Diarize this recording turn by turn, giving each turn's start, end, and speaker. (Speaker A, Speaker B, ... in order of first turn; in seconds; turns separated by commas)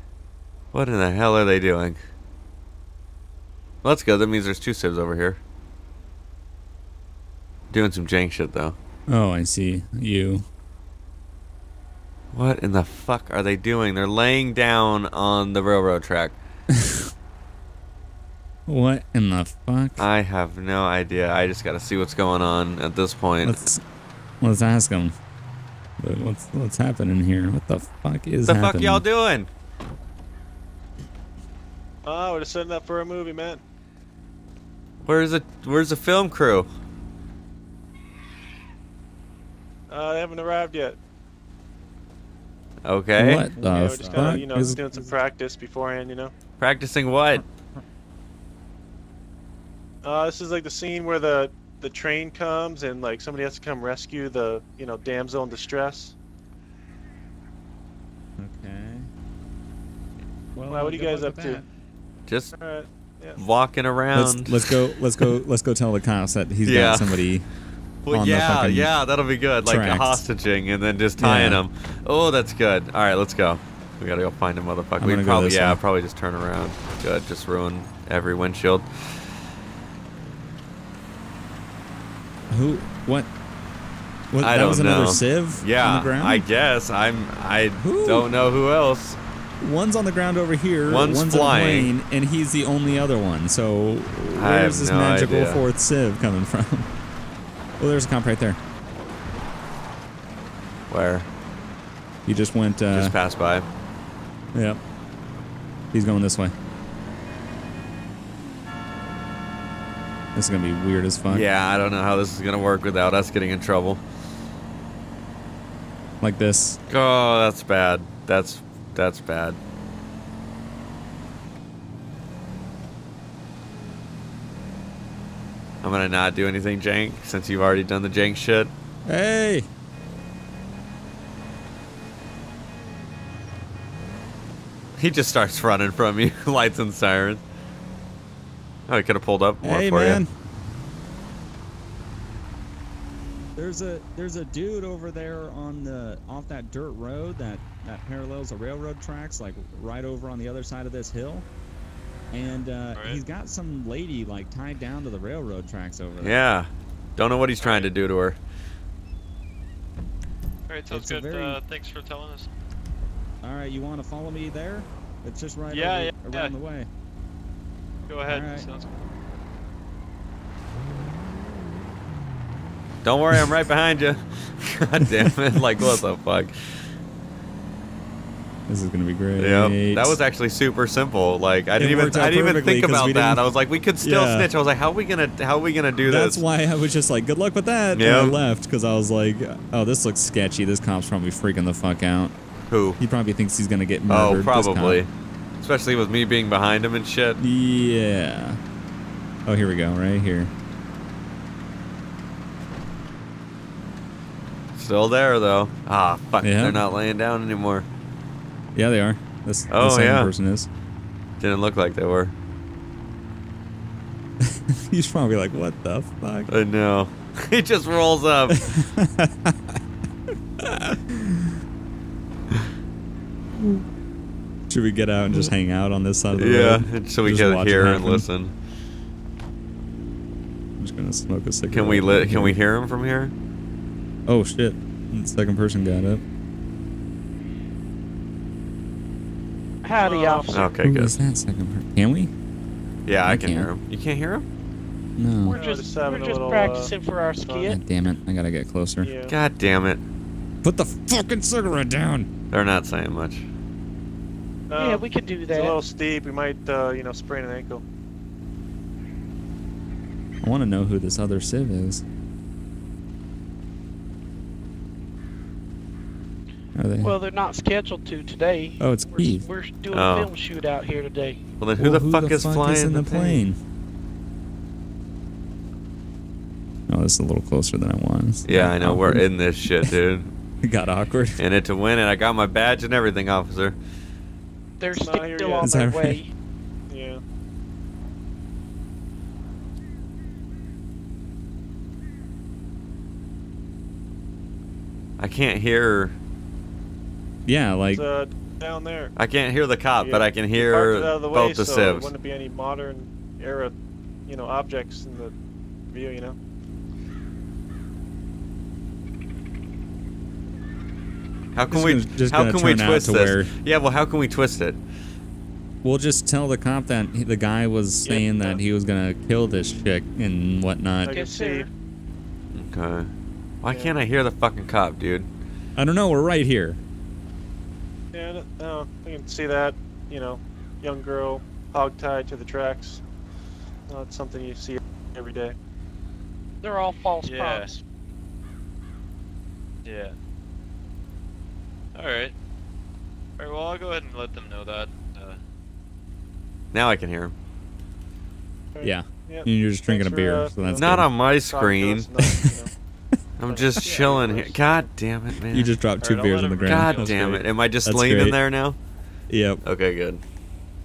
Speaker A: 0.7-2.0, Speaker A: 3.8-5.4, Speaker A: 7.7-8.8, Speaker B: 9.1-10.4, Speaker A: 12.3-16.3, Speaker B: 18.7-20.0, Speaker A: 20.0-23.6, Speaker B: 23.4-23.8, Speaker B: 24.4-25.1, Speaker B: 26.0-29.0, Speaker A: 28.4-29.5, Speaker C: 32.0-33.6, Speaker A: 35.0-36.7, Speaker C: 39.9-41.0, Speaker A: 42.8-43.5, Speaker B: 43.2-45.2, Speaker C: 43.5-46.3, Speaker A: 46.6-47.4, Speaker B: 47.3-47.8, Speaker C: 50.0-56.1, Speaker B: 58.4-59.1, Speaker B: 60.5-61.6, Speaker C: 60.7-61.6, Speaker A: 62.3-62.5, Speaker C: 62.5-63.4, Speaker A: 63.4-64.7, Speaker B: 64.1-67.5, Speaker A: 66.6-67.2, Speaker A: 68.0-78.9, Speaker B: 68.1-68.9, Speaker B: 69.6-70.2, Speaker B: 71.2-71.6, Speaker B: 75.0-75.8, Speaker B: 82.5-83.3, Speaker B: 84.3-86.5, Speaker A: 84.4-89.2, Speaker B: 87.8-88.3, Speaker B: 89.6-96.9, Speaker A: 90.9-91.9, Speaker A: 94.4-95.6, Speaker B: 97.8-98.6, Speaker A: 100.9-101.3, Speaker B: 102.2-103.2, Speaker A: 102.9-103.7, Speaker B: 104.5-104.8, Speaker B: 105.9-106.5, Speaker B: 110.3-111.4, Speaker A: 111.3-114.0, Speaker B: 116.2-116.8, Speaker A: 116.9-119.6, Speaker A: 125.8-128.7, Speaker B: 129.1-129.7, Speaker A: 135.0-137.4, Speaker A: 138.9-140.2, Speaker B: 139.6-140.3, Speaker B: 143.6-151.4, Speaker B: 152.3-156.4, Speaker D: 152.9-153.2, Speaker A: 156.2-158.4, Speaker D: 157.6-157.9, Speaker D: 160.7-162.5, Speaker B: 160.9-161.6, Speaker B: 163.4-166.9, Speaker D: 165.7-166.5, Speaker D: 168.1-168.9, Speaker B: 168.3-168.7, Speaker A: 173.0-176.8, Speaker B: 178.7-180.2, Speaker A: 179.4-186.4, Speaker B: 181.8-183.4, Speaker B: 184.0-184.5, Speaker B: 186.0-192.3, Speaker A: 187.9-188.4, Speaker A: 192.7-193.0, Speaker B: 193.0-195.0, Speaker A: 194.1-197.4, Speaker B: 197.4-198.6, Speaker B: 199.4-200.5, Speaker A: 204.8-207.8, Speaker B: 206.4-206.8, Speaker B: 208.7-210.7, Speaker A: 209.7-210.3, Speaker A: 211.4-212.3, Speaker B: 214.4-216.5, Speaker A: 216.5-218.7, Speaker B: 218.7-219.8, Speaker B: 220.6-221.6, Speaker B: 224.7-228.2, Speaker A: 226.3-228.5, Speaker B: 230.8-232.6, Speaker A: 231.7-233.3, Speaker B: 234.3-236.2, Speaker E: 239.8-240.7, Speaker C: 240.0-240.5, Speaker A: 240.5-241.2, Speaker B: 240.8-242.3, Speaker A: 243.1-244.4, Speaker B: 243.2-243.7, Speaker B: 245.2-245.6, Speaker E: 245.4-247.8, Speaker C: 245.4-247.8, Speaker B: 247.6-249.1, Speaker C: 249.0-249.3, Speaker A: 249.3-250.0, Speaker B: 250.6-252.3, Speaker A: 252.5-253.4, Speaker C: 254.7-257.8, Speaker E: 254.7-255.8, Speaker B: 260.4-262.0, Speaker B: 266.8-267.1, Speaker E: 267.0-271.4, Speaker B: 268.8-269.5, Speaker A: 269.9-270.3, Speaker A: 271.6-273.4, Speaker B: 271.8-273.6, Speaker B: 276.9-279.9, Speaker A: 278.4-280.3, Speaker B: 280.6-281.4, Speaker A: 281.4-283.8, Speaker E: 284.8-286.3, Speaker C: 284.9-285.9, Speaker B: 285.6-286.2, Speaker C: 286.9-287.2, Speaker A: 295.2-296.1, Speaker B: 297.4-298.1, Speaker C: 297.9-299.1, Speaker A: 299.1-302.1, Speaker C: 300.0-303.7, Speaker C: 304.3-305.3, Speaker C: 305.9-306.4, Speaker A: 311.5-314.8, Speaker B: 311.7-313.5, Speaker B: 315.8-321.2, Speaker C: 318.0-318.6, Speaker C: 321.0-321.7, Speaker E: 321.1-321.7, Speaker A: 322.5-323.1, Speaker A: 323.6-325.3, Speaker C: 323.7-324.0, Speaker B: 325.8-326.8, Speaker C: 328.1-333.0, Speaker C: 333.9-335.6, Speaker E: 336.6-337.8, Speaker D: 337.2-337.7, Speaker D: 339.8-340.1, Speaker D: 341.9-342.3, Speaker D: 343.4-345.4, Speaker A: 346.7-347.3, Speaker C: 348.7-352.7, Speaker B: 348.8-351.1, Speaker A: 350.8-352.1, Speaker B: 352.2-352.5, Speaker A: 353.4-355.7, Speaker C: 353.4-354.9, Speaker B: 355.5-358.4, Speaker D: 356.0-357.3, Speaker A: 356.6-358.8, Speaker B: 359.3-359.6, Speaker A: 359.6-360.2